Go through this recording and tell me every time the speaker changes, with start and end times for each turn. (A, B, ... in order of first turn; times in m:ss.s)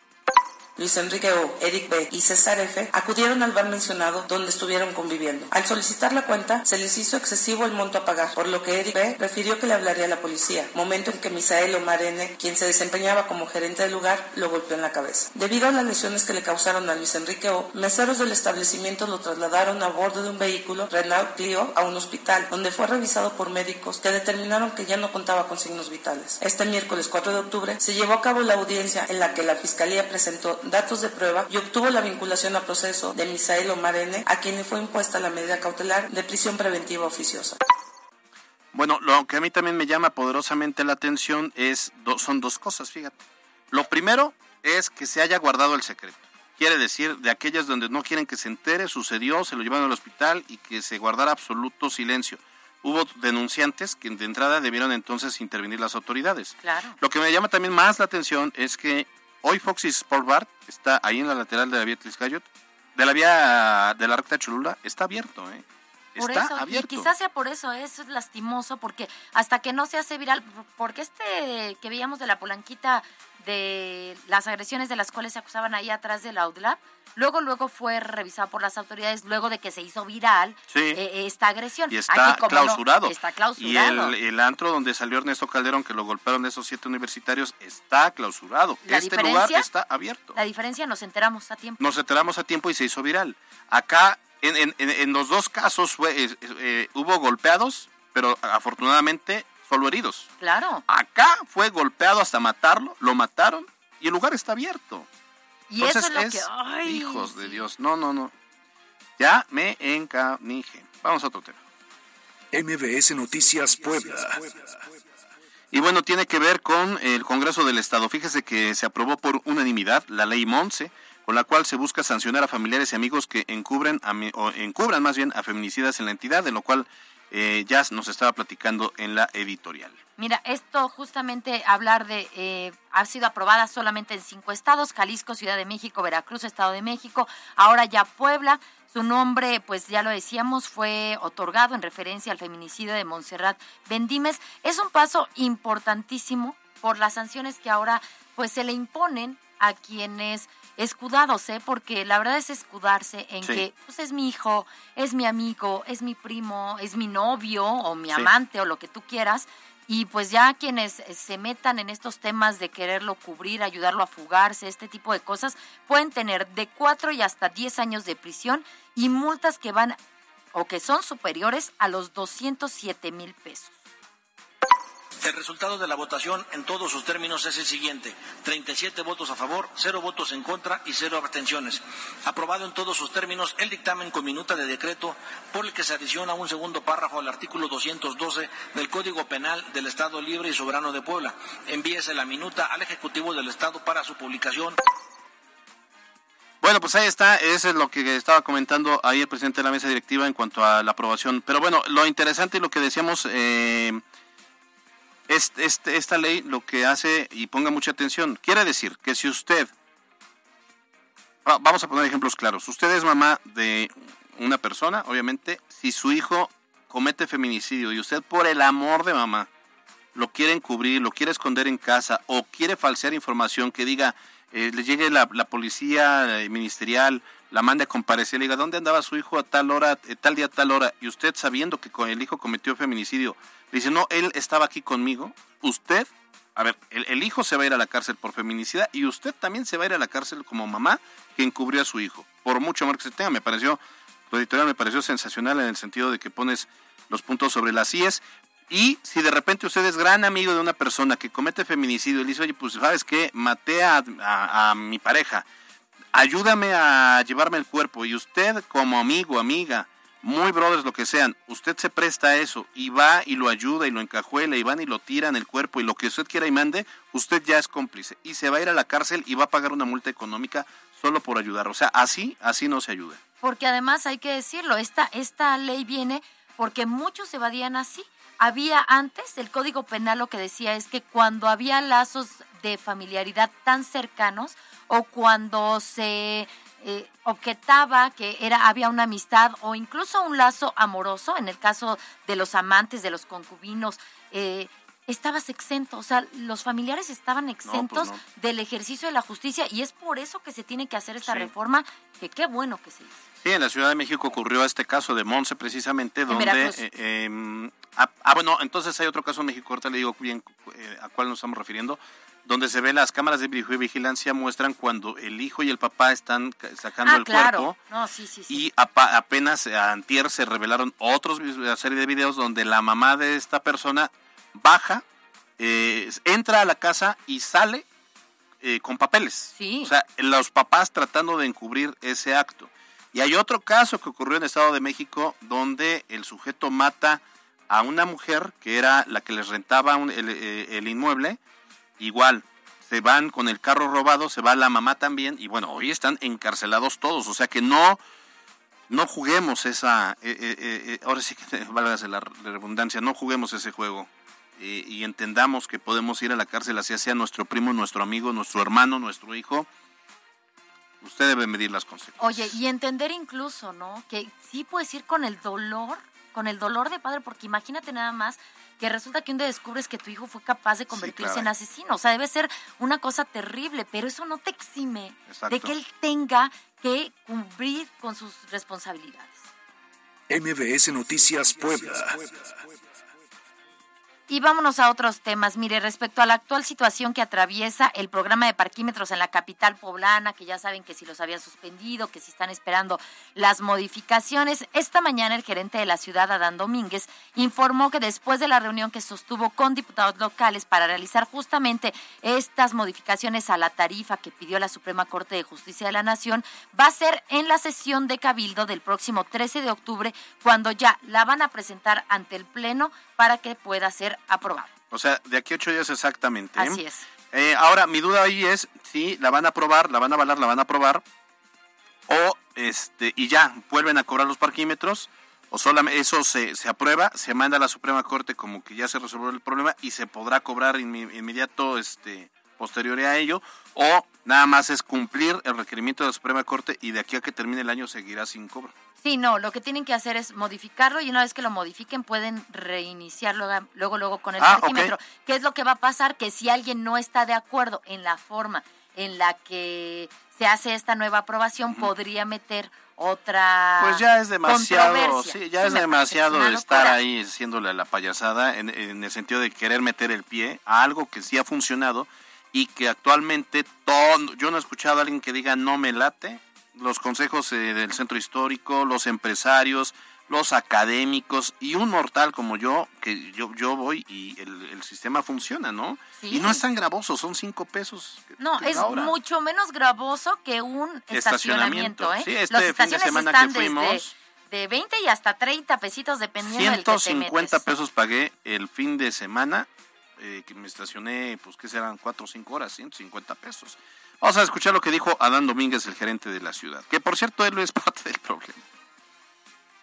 0:00.8-0:37.6 A
0:38.7-0:43.1 B
0:43.7-1:02.4 B
0:56.6-0:57.0 C
1:03.0-1:05.6 B
1:06.2-1:07.1 B
1:06.2-1:24.2 C
1:20.7-1:21.0 B
1:21.9-1:30.4 B
1:28.8-1:29.7 C
1:30.4-1:31.8 C
1:31.8-1:40.3 B
1:40.4-1:40.8 C
1:40.9-1:45.1 B
1:45.7-1:47.6 C
1:45.8-1:48.3 B
1:49.2-1:51.6 B
1:52.5-1:54.9 D
1:55.7-2:10.0 B
2:10.2-2:50.0 C
2:50.5-2:53.8 C
2:55.2-3:14.8 E
3:16.6-3:24.0 B
3:25.3-3:29.7 B
3:31.4-3:39.5 B
3:40.2-4:15.4 B
4:16.1-4:33.2 B
4:33.4-5:03.1 C
4:57.7-4:58.2 B
5:01.2-5:01.5 B
5:03.4-5:17.8 B
5:06.3-5:06.8 C
5:17.0-5:18.6 C
5:18.5-5:25.0 B
5:25.6-5:27.8 B
5:28.6-5:41.4 B
5:29.6-5:29.9 C
5:42.0-5:48.0 B
5:48.9-5:59.7 B
6:01.0-6:02.5 B
6:02.2-6:19.4 C
6:10.9-6:11.5 B
6:15.3-6:15.7 B
6:20.3-6:22.7 D
6:24.3-6:54.7 C
6:54.9-7:01.0 B
6:56.6-6:57.0 C
7:02.1-7:18.7 B
7:19.0-7:37.0 C
7:24.4-7:24.9 B
7:33.8-7:59.2 B
7:56.2-7:56.6 C
7:58.4-8:07.6 C
8:01.1-8:04.1 B
8:06.4-8:18.6 B